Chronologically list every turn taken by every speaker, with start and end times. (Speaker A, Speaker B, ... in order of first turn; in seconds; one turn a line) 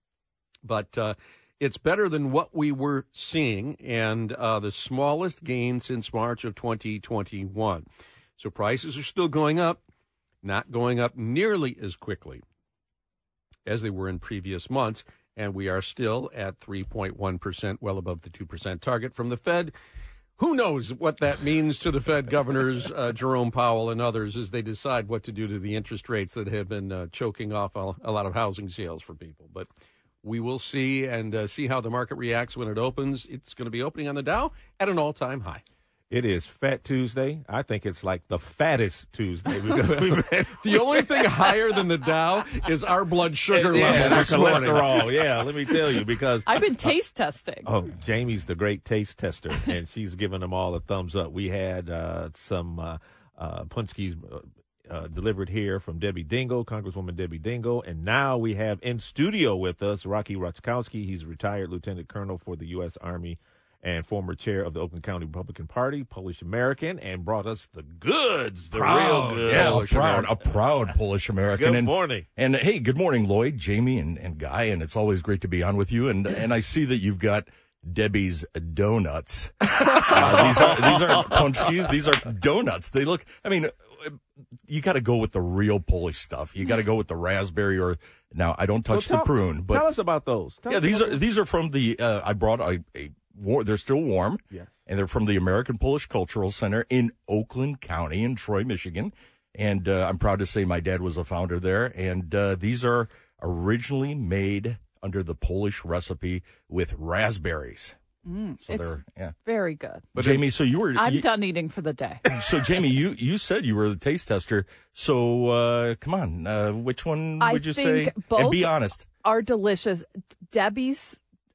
Speaker A: 0.6-9.8
Speaker A: 10.4-12.4
Speaker A: 13.7-19.7
Speaker A: 20.4-29.7
Speaker A: 30.2-35.6
Speaker B: 36.1-41.6
Speaker A: 40.5-45.1
Speaker B: 43.5-46.9
Speaker C: 43.8-44.7
Speaker D: 43.9-44.3
Speaker D: 46.5-47.7
Speaker B: 47.6-70.3
Speaker A: 68.7-70.3
Speaker C: 69.5-89.9
Speaker B: 71.5-72.3
Speaker B: 80.4-81.1
Speaker B: 88.9-91.2
Speaker C: 90.7-108.0
Speaker D: 108.3-110.1
Speaker C: 108.6-109.3
Speaker A: 110.1-110.4
Speaker C: 110.2-111.3
Speaker D: 110.9-112.3
Speaker C: 112.3-119.1
Speaker D: 117.4-121.2